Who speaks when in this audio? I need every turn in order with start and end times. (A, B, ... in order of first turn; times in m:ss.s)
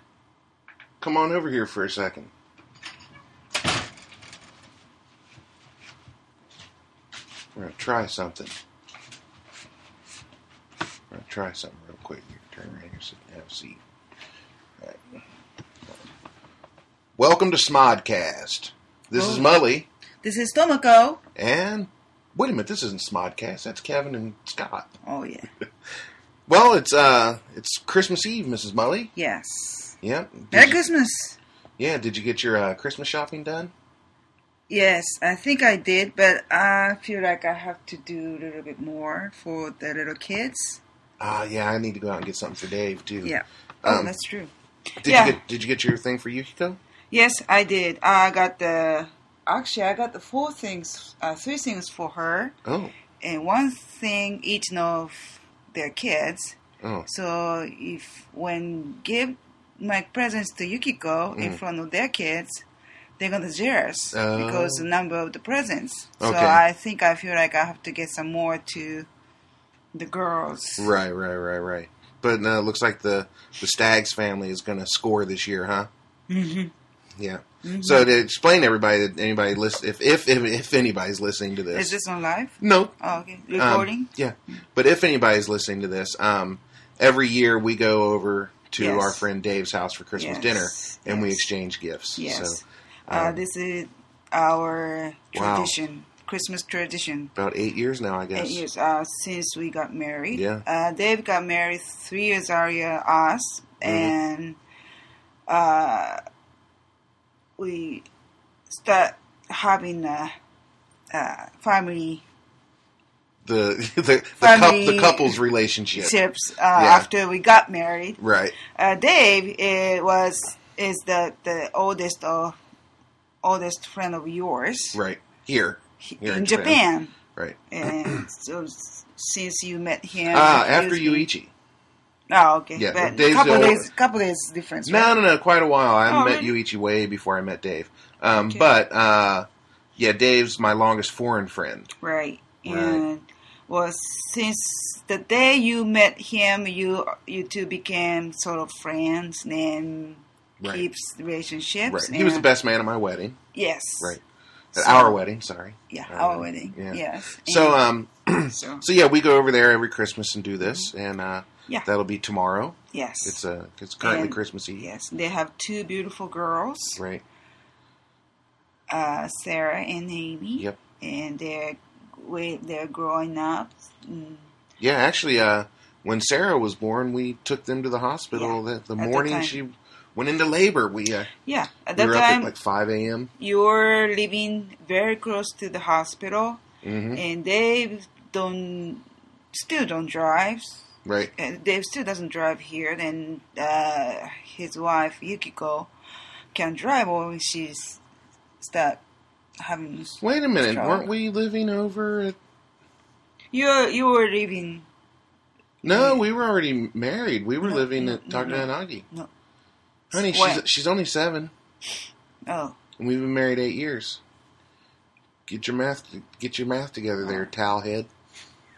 0:01.0-0:02.3 A
0:07.6-0:08.5 A
0:11.1-0:13.8 A
0:17.2-0:19.8 A
0:19.1-0:19.6 B
0:20.2-0:21.2 B
0:21.4-0:24.9 A
0:25.0-0:25.5 B
0:26.5-0:29.1 A
0:29.2-0:30.0 B
0:30.0-0:30.8 A
0:30.5-0:31.4 B
0:31.8-0:33.7 A
0:34.7-0:40.8 B
0:41.2-0:43.3 A
0:43.2-0:44.5 B
0:43.8-0:44.1 A
0:45.0-0:46.8 A
0:45.0-0:45.4 B
0:47.1-0:52.6 B
0:52.6-0:52.9 A
0:53.2-1:02.6 B
0:56.8-0:57.1 A
1:03.2-1:09.1 B
1:04.1-1:04.9 A
1:06.2-1:06.6 A
1:09.9-1:10.9 B
1:10.8-1:15.9 A
1:16.3-1:16.7 B
1:17.2-1:22.0 A
1:17.6-1:18.1 B
1:21.7-1:24.1 B
1:22.6-1:22.9 A
1:23.6-1:33.4 A
1:28.8-1:29.2 B
1:30.2-1:31.5 B
1:32.2-1:37.3 B
1:35.3-1:35.7 A
1:37.4-1:38.6 A
1:38.3-1:44.6 B
1:40.3-1:40.6 A
1:43.8-1:44.1 A
1:45.5-1:46.2 B
1:47.6-1:48.1 B
1:48.7-1:50.3 B
1:51.1-1:52.2 B
1:53.4-1:56.2 A
1:54.4-1:55.4 B
1:55.9-2:02.6 B
1:56.7-1:57.1 A
1:58.2-1:58.6 A
2:03.4-2:05.0 B
2:04.9-2:06.8 A
2:06.0-2:07.1 B
2:07.4-2:08.2 A
2:07.7-2:11.3 B
2:10.3-2:11.5 A
2:12.3-2:15.1 B
2:12.8-2:13.9 A
2:14.8-2:19.4 A
2:16.1-2:16.5 B
2:18.3-2:18.7 B
2:20.0-2:21.9 A
2:22.0-2:32.5 B
2:22.6-2:23.0 A
2:31.9-2:33.4 A
2:33.5-2:34.2 B
2:34.7-2:35.2 B
2:34.7-2:44.8 A
2:35.9-2:37.8 B
2:38.5-2:38.8 B
2:40.6-2:40.9 B
2:42.9-2:43.4 B
2:44.0-2:47.0 B
2:47.0-2:47.2 A
2:48.9-2:54.4 B
2:54.8-3:01.3 A
2:58.3-2:59.6 B
3:01.4-3:02.5 B
3:02.0-3:03.3 A
3:03.4-3:06.6 B
3:06.8-3:07.2 A
3:07.1-3:10.8 B
3:11.0-3:11.3 A
3:11.4-3:15.9 B
3:16.5-3:18.0 B
3:18.6-3:19.0 B
3:19.6-3:21.1 B
3:20.2-3:22.4 A
3:23.5-3:24.8 B
3:25.8-3:29.0 A
3:25.8-3:26.2 B
3:27.6-3:29.3 B
3:30.1-3:30.6 B
3:30.1-3:31.5 A
3:32.5-3:32.8 B
3:33.0-3:34.2 A
3:35.5-3:38.1 A
3:37.2-3:37.5 B